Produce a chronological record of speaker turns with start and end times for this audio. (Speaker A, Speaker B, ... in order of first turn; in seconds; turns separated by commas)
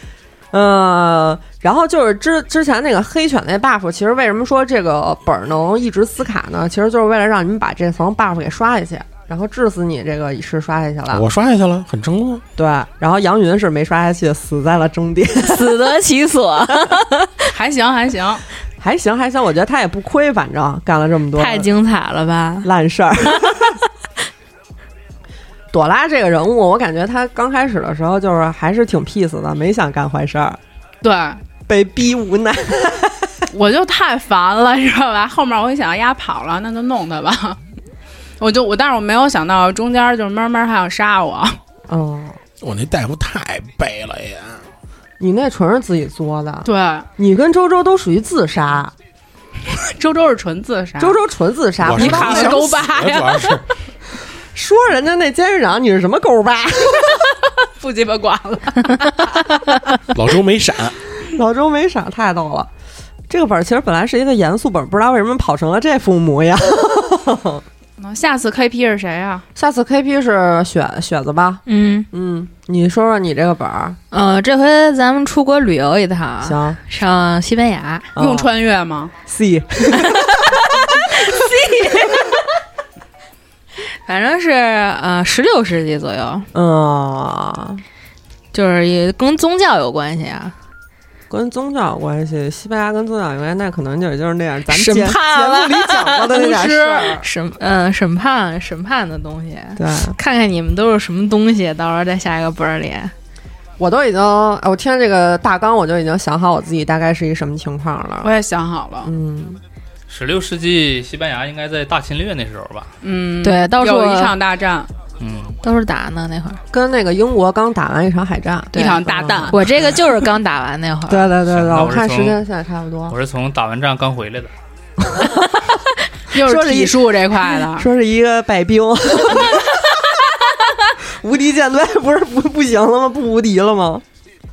Speaker A: 0.5-11.2, Speaker B: 11.1-12.4, Speaker A: 12.6-15.8, Speaker C: 15.4-17.5, Speaker D: 17.5-18.4, Speaker A: 18.8-21.7, Speaker C: 21.4-22.7, Speaker A: 22.6-23.7, Speaker C: 23.3-23.8, Speaker A: 25.7-30.6, Speaker D: 31.0-31.4, Speaker A: 31.7-33.5, Speaker D: 33.5-37.6, Speaker D: 38.4-41.6, Speaker A: 41.9-42.4, Speaker B: 42.6-44.6, Speaker A: 45.2-46.7, Speaker D: 46.6-47.1, Speaker A: 47.2-48.9, Speaker D: 49.7-51.2, Speaker A: 51.0-52.8, Speaker B: 51.8-53.6, Speaker D: 51.9-53.6, Speaker A: 54.5-57.3, Speaker D: 57.0-59.5, Speaker B: 60.1-61.0, Speaker A: 61.2-62.7, Speaker A: 63.3-67.6, Speaker D: 68.0-69.5, Speaker A: 69.6-74.0, Speaker C: 71.7-72.1, Speaker C: 74.1-78.1, Speaker A: 76.4-76.8, Speaker A: 78.2-78.5, Speaker D: 78.2-79.1, Speaker A: 79.3-80.6, Speaker C: 81.2-82.3, Speaker C: 84.0-86.5, Speaker A: 86.5-87.8, Speaker C: 88.5-90.5, Speaker A: 91.3-97.2, Speaker C: 94.7-103.1, Speaker D: 96.5-97.1, Speaker A: 99.8-100.2, Speaker A: 103.8-108.3, Speaker D: 108.2-109.1, Speaker A: 109.0-109.6, Speaker E: 110.1-112.9, Speaker D: 113.0-114.9, Speaker C: 113.4-114.4, Speaker E: 115.2-115.6, Speaker C: 115.6-116.6, Speaker A: 116.7-120.0, Speaker D: 118.7-119.6, Speaker C: 118.7-121.3, Speaker A: 121.1-123.2, Speaker E: 121.5-122.4, Speaker E: 123.1-124.5, Speaker A: 125.0-125.4, Speaker D: 126.3-127.9, Speaker A: 126.4-130.2, Speaker A: 131.0-134.0